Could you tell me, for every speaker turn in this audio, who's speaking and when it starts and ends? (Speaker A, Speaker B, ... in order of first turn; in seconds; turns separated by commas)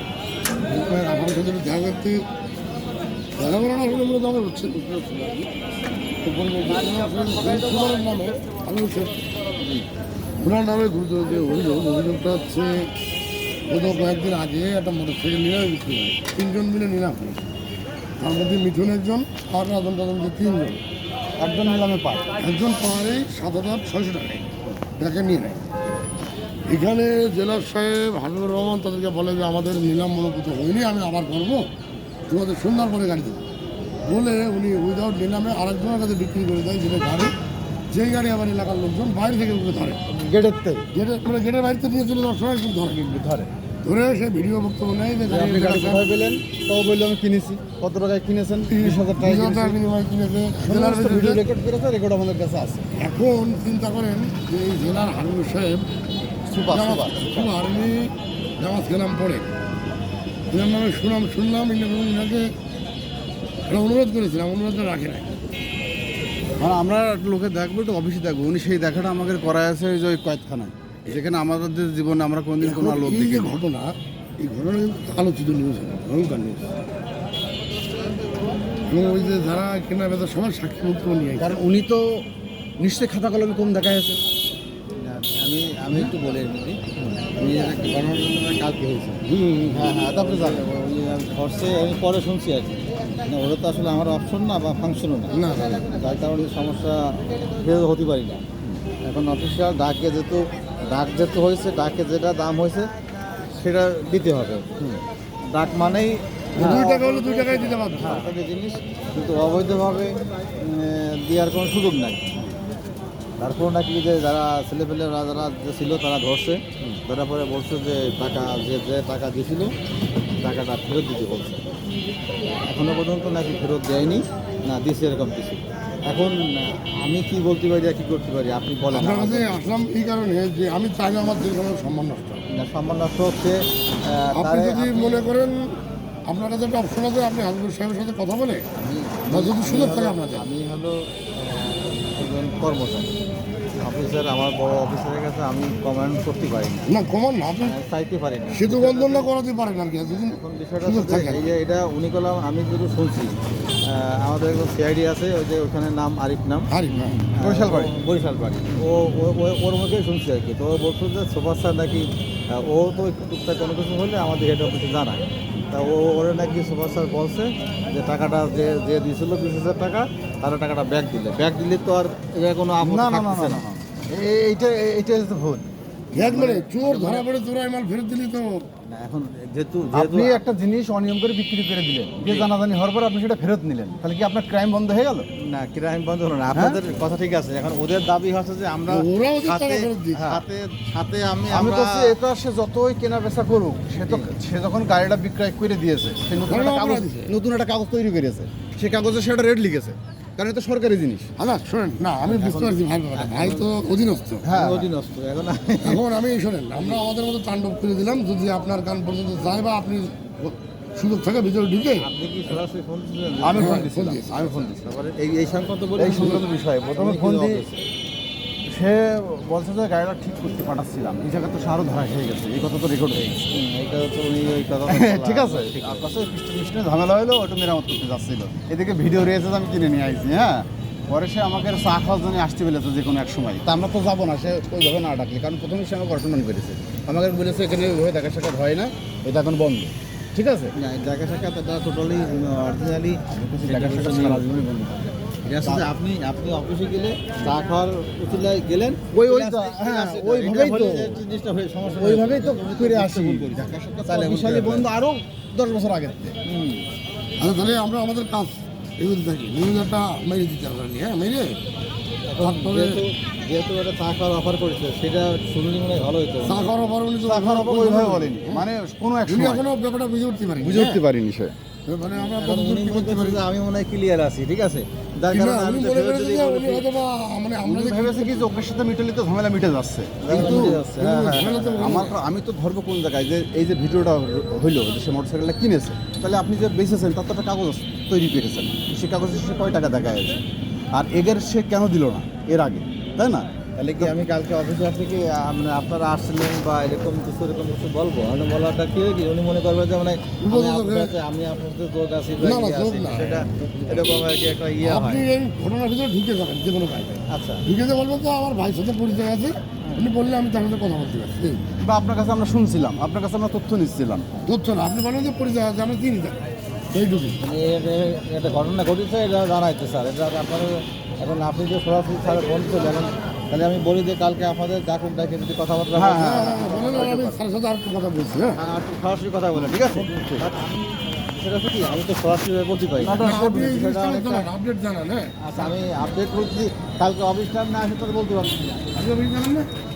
Speaker A: 0.7-2.2, Speaker A: 3.4-5.5, Speaker A: 6.2-9.3, Speaker A: 10.4-12.9, Speaker A: 13.7-17.5, Speaker A: 18.2-20.8, Speaker B: 21.4-22.3, Speaker A: 22.4-25.7, Speaker A: 26.7-31.7, Speaker A: 32.3-33.4, Speaker A: 34.0-37.3, Speaker A: 37.9-40.0, Speaker B: 40.1-40.9, Speaker A: 40.9-43.0, Speaker B: 42.9-43.5, Speaker A: 43.8-46.1, Speaker B: 45.3-49.8, Speaker A: 48.7-51.4, Speaker B: 50.6-52.9, Speaker A: 52.9-55.9, Speaker B: 56.5-57.5, Speaker A: 56.7-59.5, Speaker A: 60.5-62.5, Speaker A: 63.7-65.3, Speaker B: 66.6-73.6, Speaker A: 72.6-76.8, Speaker A: 78.8-81.6, Speaker B: 81.4-82.2, Speaker B: 82.8-84.2, Speaker C: 85.0-98.4, Speaker A: 89.2-90.0, Speaker B: 89.8-90.7, Speaker A: 95.3-95.8, Speaker C: 99.0-102.9, Speaker C: 103.6-104.7, Speaker C: 105.4-112.4, Speaker A: 106.5-108.3, Speaker B: 106.6-107.0, Speaker B: 108.1-108.4, Speaker C: 113.4-119.7, Speaker C: 120.4-121.6, Speaker C: 122.7-129.5, Speaker A: 128.9-132.4, Speaker C: 132.5-135.3, Speaker A: 134.3-138.7, Speaker C: 138.8-143.1, Speaker A: 139.3-140.5, Speaker C: 143.8-146.9, Speaker A: 146.9-147.7, Speaker C: 147.6-149.3, Speaker A: 148.5-151.4, Speaker C: 150.2-156.7, Speaker A: 156.7-157.2, Speaker B: 157.0-157.9, Speaker C: 157.3-173.6, Speaker B: 172.8-176.4, Speaker A: 176.1-178.7, Speaker C: 176.2-177.2, Speaker C: 178.8-180.4, Speaker B: 179.9-185.3, Speaker C: 182.2-182.5, Speaker C: 185.4-192.2, Speaker B: 186.5-186.8, Speaker A: 188.9-190.4, Speaker B: 190.1-190.4, Speaker B: 191.5-201.3, Speaker C: 194.0-194.3, Speaker A: 196.4-197.3, Speaker A: 201.4-204.5, Speaker C: 202.3-203.8, Speaker B: 204.4-204.9, Speaker C: 204.5-206.1, Speaker A: 205.8-212.1, Speaker C: 212.0-217.8, Speaker B: 213.4-214.9, Speaker A: 213.5-214.6, Speaker B: 216.0-217.7, Speaker B: 218.7-223.5, Speaker C: 223.5-226.1, Speaker B: 224.9-240.7, Speaker C: 240.7-244.5, Speaker B: 243.3-245.9, Speaker C: 245.5-254.9, Speaker B: 249.1-251.2, Speaker B: 251.9-256.4, Speaker C: 256.4-256.9, Speaker A: 257.4-261.6, Speaker C: 262.2-266.7, Speaker A: 262.4-263.0, Speaker A: 266.4-268.6, Speaker B: 267.2-269.7, Speaker A: 269.3-271.0, Speaker B: 270.6-271.6, Speaker A: 271.9-273.4, Speaker C: 272.1-276.9, Speaker A: 275.3-278.5, Speaker B: 277.6-280.9, Speaker C: 280.2-282.1, Speaker A: 280.3-282.1, Speaker B: 281.8-290.4, Speaker B: 290.9-294.1, Speaker C: 293.8-305.2, Speaker A: 300.4-301.1, Speaker A: 302.4-304.3, Speaker A: 304.8-311.6, Speaker C: 307.3-307.6, Speaker B: 311.8-314.3, Speaker A: 314.4-316.4, Speaker A: 316.9-317.4, Speaker C: 317.4-327.4, Speaker B: 325.9-326.9, Speaker A: 326.2-328.6, Speaker C: 328.6-334.5, Speaker B: 329.6-330.5, Speaker B: 333.0-333.8, Speaker A: 333.1-335.4, Speaker C: 335.4-338.9, Speaker A: 338.9-339.7